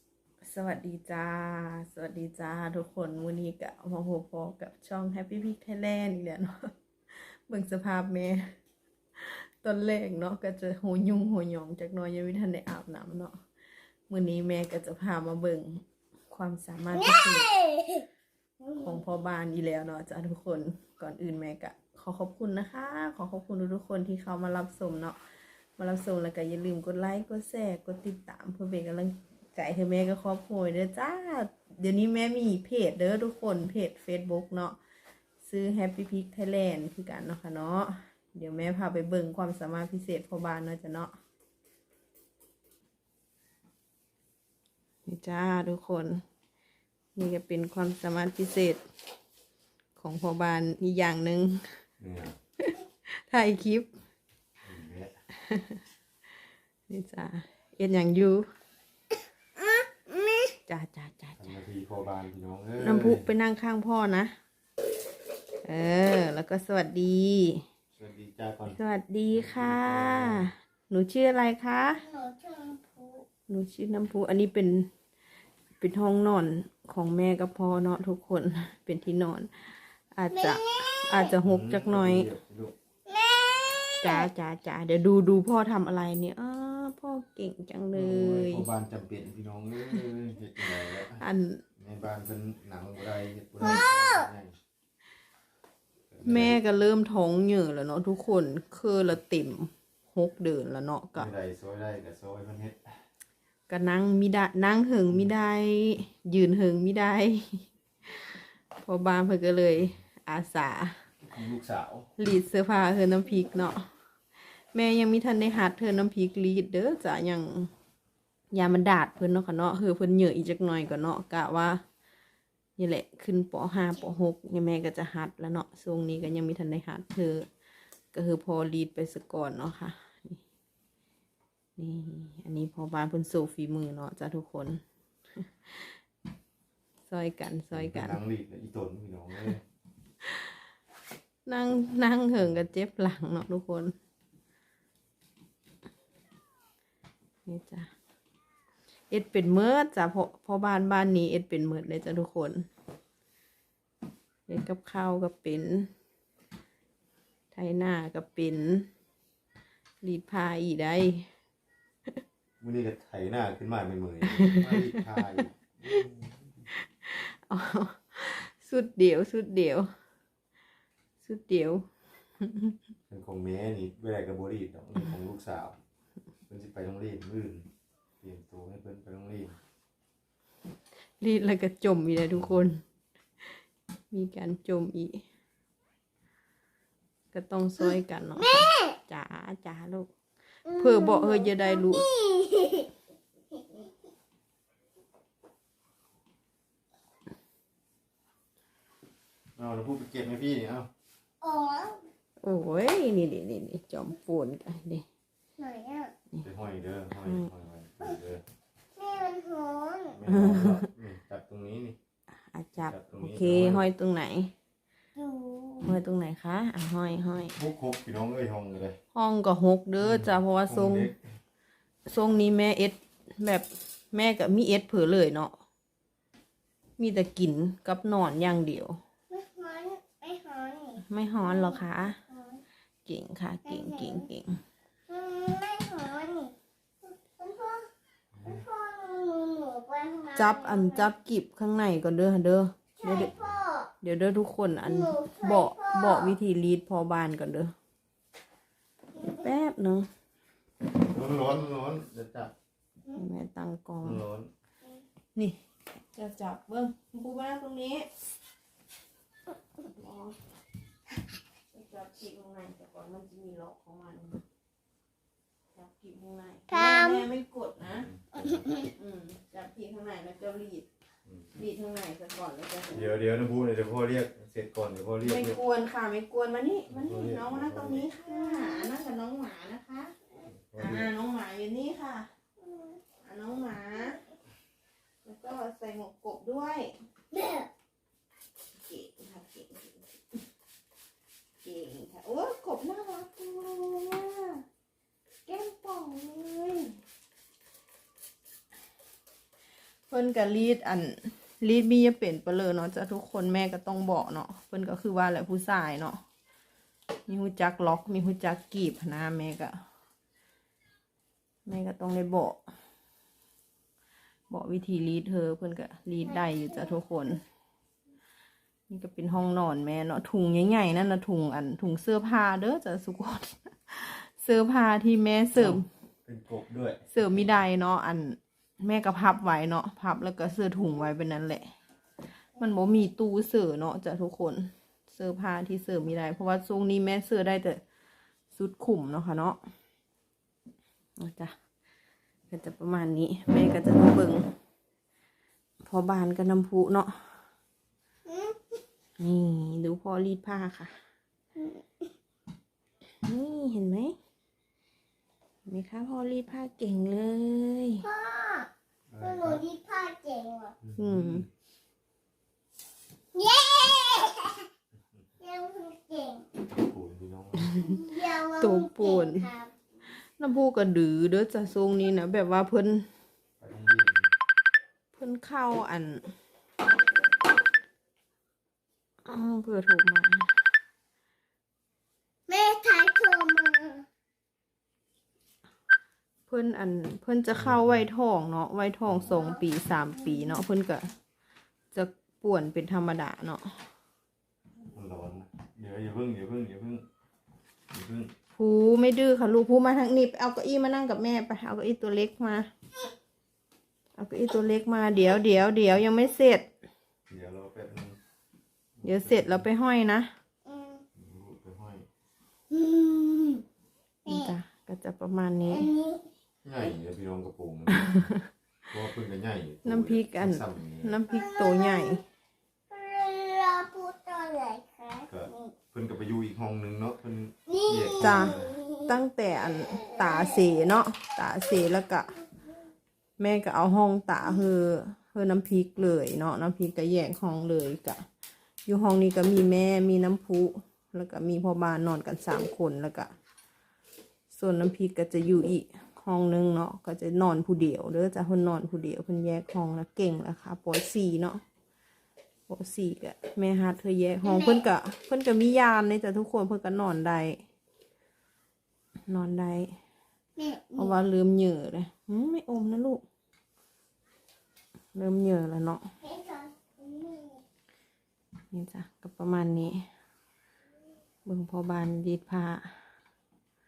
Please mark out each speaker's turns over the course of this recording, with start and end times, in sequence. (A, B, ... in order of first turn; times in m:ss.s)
0:00.4-0:06.5 A
0:07.1-0:08.4 A
0:09.2-0:13.4 A
0:14.1-0:17.5 A
0:16.9-0:18.1 B
0:18.6-0:19.0 B
0:18.8-0:25.2 A
0:25.8-0:34.8 A
0:35.4-0:41.1 A
0:45.0-0:46.2 A
0:47.1-0:48.8 A
0:50.0-0:51.8 A
0:52.0-0:52.4 C
0:52.6-0:53.9 A
0:54.6-0:55.1 C
0:55.4-0:55.8 A
0:56.9-0:58.4 A
0:59.6-1:00.5 B
1:00.7-1:01.6 A
1:01.4-1:03.3 C
1:02.8-1:04.3 A
1:05.6-1:07.6 A
1:08.0-1:08.8 C
1:08.7-1:12.0 A
1:09.3-1:10.5 C
1:12.0-1:13.2 B
1:13.5-1:14.9 A
1:15.8-1:22.3 A
1:20.3-1:21.3 B
1:21.4-1:22.7 C
1:23.0-1:24.3 B
1:24.0-1:28.7 A
1:27.9-1:31.2 C
1:31.0-1:31.6 A
1:31.8-1:34.6 C
1:33.6-1:34.2 B
1:36.1-1:36.6 C
1:36.2-1:41.3 A
1:41.2-1:43.0 C
1:43.7-1:51.0 A
1:51.3-1:52.1 C
1:52.2-1:53.9 A
1:54.7-1:57.7 A
1:58.5-2:01.8 A
2:02.8-2:07.5 A
2:08.1-2:10.4 A
2:11.8-2:14.8 A
2:15.4-2:16.0 A
2:17.1-2:18.2 A
2:17.7-2:19.6 C
2:20.2-2:20.5 A
2:21.4-2:23.9 A
2:27.4-2:27.9 A
2:29.1-2:32.7 A
2:34.5-2:35.9 A
2:37.5-2:38.9 A
2:40.0-2:41.3 A
2:42.6-2:46.6 C
2:44.3-2:46.0 A
2:46.8-2:49.9 A
2:51.2-2:51.9 A
2:52.4-2:52.8 A
2:53.1-2:55.8 C
2:56.5-2:57.7 C
2:58.2-2:59.6 C
3:01.2-3:02.8 A
3:04.1-3:05.2 A
3:07.3-3:10.1 A
3:08.4-3:09.0 B
3:10.6-3:12.9 B
3:10.7-3:12.1 A
3:13.5-3:13.9 B
3:19.6-3:20.9 C
3:21.4-3:22.0 B
3:22.4-3:25.0 A
3:25.6-3:26.1 B
3:26.4-3:28.4 C
3:27.1-3:27.5 A
3:29.0-3:30.2 B
3:30.1-3:32.0 C
3:30.3-3:30.9 A
3:32.5-3:34.5 A
3:32.8-3:33.9 C
3:35.2-3:35.9 B
3:35.8-3:37.6 A
3:37.6-3:39.0 C
3:39.1-3:41.1 A
3:40.0-3:41.2 C
3:42.0-3:45.6 A
3:47.0-3:49.0 A
3:49.3-3:52.6 B
3:51.0-3:52.2 A
3:53.0-3:54.6 A
3:53.6-3:54.2 B
3:55.1-3:56.5 B
3:57.0-3:57.9 B
3:58.3-3:58.6 C
3:58.4-4:01.1 B
4:00.3-4:03.3 A
4:03.0-4:03.9 B
4:03.3-4:03.6 C
4:04.0-4:07.7 A
4:04.8-4:06.4 B
4:09.2-4:10.1 A
4:10.9-4:12.5 C
4:13.1-4:14.2 A
4:14.0-4:14.5 C
4:15.4-4:18.1 A
4:19.8-4:20.4 A
4:21.7-4:24.4 A
4:25.7-4:28.1 A
4:26.7-4:27.2 B
4:27.9-4:28.7 C
4:28.4-4:28.8 B
4:28.8-4:30.8 A
4:31.5-4:33.1 A
4:32.9-4:35.6 C
4:35.2-4:40.1 A
4:36.9-4:38.1 C
4:38.2-4:38.9 B
4:40.4-4:41.1 C
4:40.8-4:42.3 A
4:42.6-4:43.0 B
4:43.2-4:44.2 A
4:45.2-4:46.9 A
4:47.3-4:47.7 B
4:48.7-4:50.4 A
4:51.6-4:54.6 A
4:55.4-4:57.0 A
5:00.1-5:06.2 A
5:07.3-5:09.8 A
5:11.6-5:12.6 A
5:14.5-5:17.4 A
5:18.9-5:25.8 A
5:25.5-5:27.4 C
5:27.1-5:31.7 A
5:32.6-5:37.8 A
5:38.5-5:39.6 A
5:41.2-5:41.5 A
5:42.5-5:44.5 A
5:45.8-5:47.5 A
5:48.2-5:48.8 B
5:49.2-5:50.9 A
5:51.6-5:52.0 B
5:53.2-5:54.1 A
5:55.6-5:58.0 A
5:58.0-5:58.7 B
5:59.1-5:59.6 C
5:59.2-6:00.7 B
6:00.8-6:01.5 C
6:01.0-6:01.4 A
6:03.3-6:04.7 B
6:05.4-6:06.4 B
6:06.7-6:07.8 C
6:07.6-6:09.5 A
6:07.8-6:09.7 B
6:10.4-6:13.1 A
6:13.6-6:14.3 C
6:15.1-6:16.3 A
6:19.2-6:20.5 A
6:22.5-6:24.0 B
6:26.5-6:31.1 A
6:27.5-6:28.0 C
6:29.3-6:29.6 B
6:30.2-6:30.5 B
6:31.9-6:33.8 A
6:34.9-6:37.0 C
6:37.9-6:38.3 C
6:38.6-6:42.7 A
6:44.2-6:46.7 A
6:47.3-6:48.2 C
6:49.0-6:49.6 C
6:49.0-6:50.3 A
6:50.6-6:51.0 B
6:51.1-6:52.0 C
6:52.7-6:53.6 B
6:54.2-6:54.5 B
6:54.3-6:55.9 A
6:55.7-6:56.3 B
6:56.6-6:58.3 C
6:57.9-6:58.4 A
6:58.9-7:01.2 C
6:59.8-7:02.2 A
7:01.3-7:02.2 B
7:02.9-7:05.7 B
7:05.3-7:08.8 C
7:07.7-7:09.2 B
7:08.2-7:12.3 A
7:09.9-7:10.6 B
7:13.4-7:18.2 A
7:18.8-7:23.3 A
7:24.5-7:31.6 A
7:32.7-7:37.6 A
7:34.4-7:34.8 B
7:39.3-7:39.9 A
7:40.6-7:41.1 B
7:41.0-7:43.2 A
7:45.1-7:46.1 A
7:46.2-7:47.6 B
7:48.7-7:50.1 A
7:51.4-7:53.0 A